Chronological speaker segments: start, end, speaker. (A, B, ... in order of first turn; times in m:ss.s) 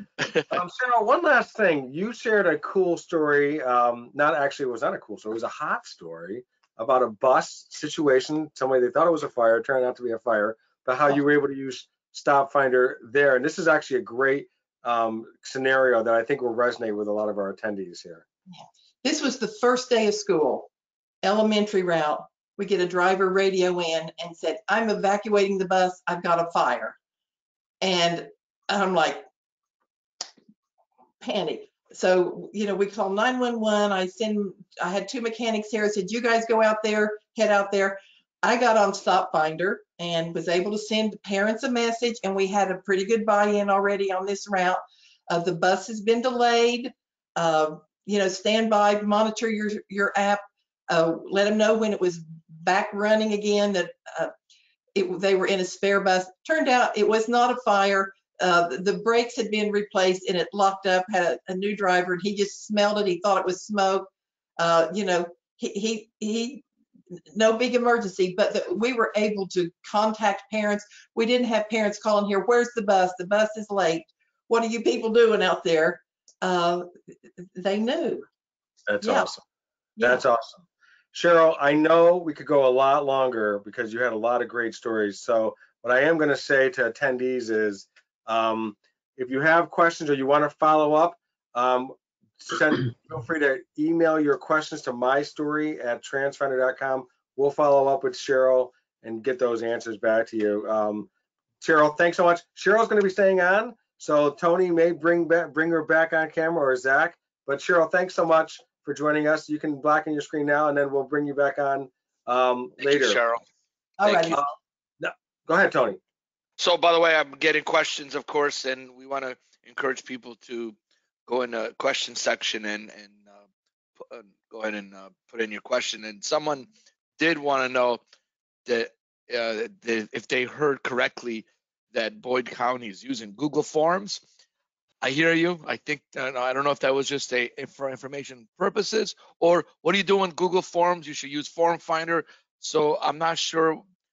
0:00.5-0:18.2 A
0:18.5-0:20.7 B
0:21.2-0:27.0 B
0:27.8-0:29.2 B
0:31.2-0:54.3 B
0:55.0-1:04.1 B
1:04.6-1:06.6 B
1:07.3-1:16.9 B
1:17.6-1:18.2 B
1:18.9-1:19.4 A
1:19.0-1:19.3 B
1:20.0-1:20.2 B
1:20.0-1:41.1 A
1:41.6-1:53.2 A
1:52.8-1:53.4 C
1:54.0-1:54.4 B
1:54.0-1:54.4 C
1:55.0-1:56.0 A
1:56.6-2:00.8 C
2:01.3-2:03.4 C
2:04.0-2:08.0 C
2:08.7-2:14.2 C
2:15.0-2:23.8 C